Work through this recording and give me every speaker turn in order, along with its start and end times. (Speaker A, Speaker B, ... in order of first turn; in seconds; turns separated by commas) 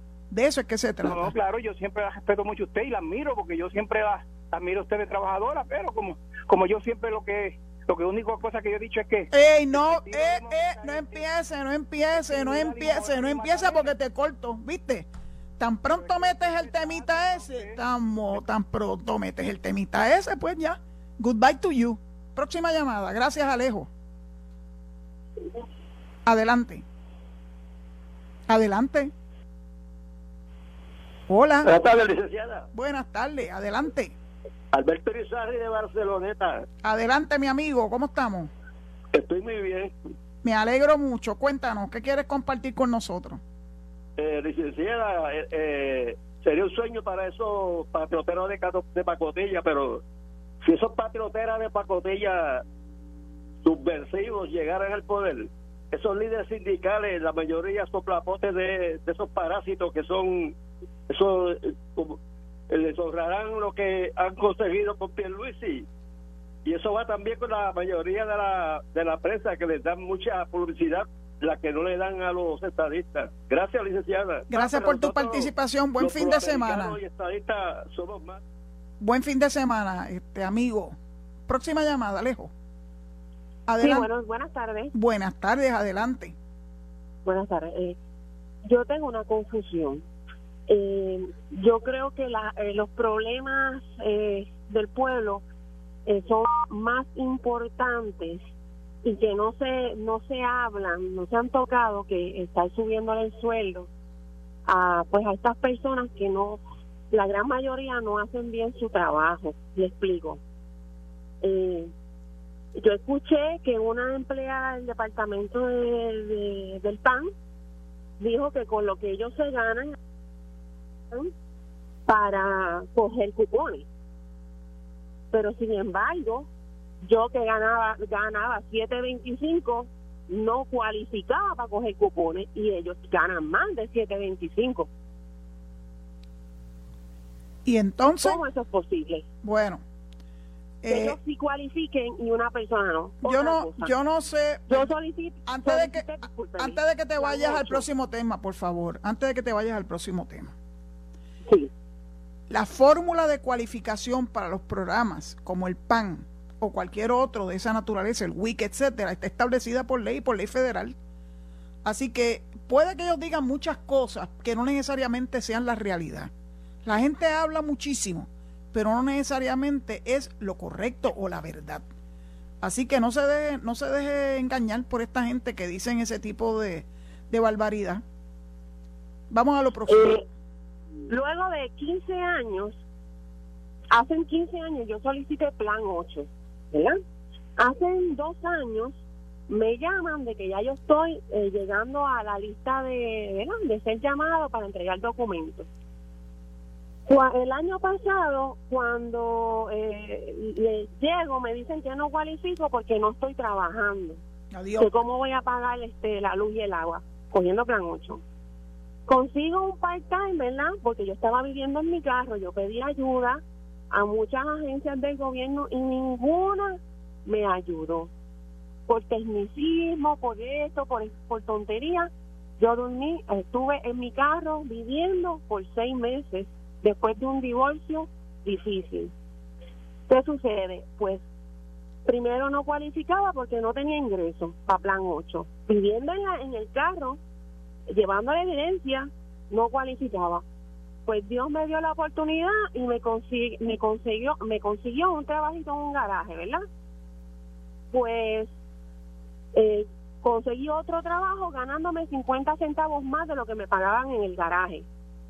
Speaker A: 0.3-1.3, Speaker B: 1.0-11.2, Speaker A: 9.3-15.1, Speaker B: 12.1-13.9, Speaker A: 15.6-23.9, Speaker B: 15.8-17.8, Speaker A: 26.2-26.8, Speaker A: 28.5-29.1, Speaker A: 31.3-31.7, Speaker C: 31.6-32.7, Speaker A: 32.7-34.1, Speaker C: 34.7-36.6, Speaker A: 36.8-38.5, Speaker C: 39.1-39.9, Speaker A: 40.4-43.4, Speaker C: 44.2-50.0, Speaker C: 50.6-52.6, Speaker C: 53.6-60.5, Speaker C: 61.1-62.2, Speaker C: 62.7-65.8, Speaker C: 66.6-78.4, Speaker A: 74.5-77.0, Speaker A: 79.0-81.0, Speaker A: 81.5-82.5, Speaker A: 83.7-84.1, Speaker D: 83.8-84.9, Speaker A: 84.9-86.3, Speaker D: 87.2-88.0, Speaker D: 88.6-90.0, Speaker D: 90.7-95.4, Speaker D: 96.0-98.4, Speaker D: 99.0-103.9, Speaker D: 104.7-106.6, Speaker D: 107.1-110.4, Speaker D: 111.4-111.9, Speaker D: 112.8-117.3, Speaker D: 118.2-120.0, Speaker D: 122.1-123.8, Speaker D: 125.3-126.5, Speaker D: 127.0-134.9, Speaker A: 137.6-138.4, Speaker D: 138.2-139.2, Speaker A: 139.4-139.8, Speaker A: 140.8-141.2, Speaker D: 140.9-143.9, Speaker A: 143.2-144.9, Speaker D: 144.7-147.8, Speaker A: 145.4-150.5, Speaker D: 151.4-151.7, Speaker A: 152.5-160.9, Speaker A: 161.8-166.3, Speaker A: 166.8-171.8, Speaker A: 172.6-178.0, Speaker A: 179.3-180.2, Speaker D: 179.9-180.2, Speaker D: 181.1-182.8, Speaker D: 183.9-187.0, Speaker D: 187.6-195.7, Speaker D: 197.1-204.2, Speaker A: 204.5-204.9, Speaker D: 204.8-208.2, Speaker D: 209.1-218.1, Speaker D: 218.9-229.1, Speaker D: 230.1-231.2, Speaker D: 232.1-237.2, Speaker D: 237.9-240.4, Speaker D: 241.1-246.6, Speaker D: 247.9-248.5, Speaker D: 249.5-254.8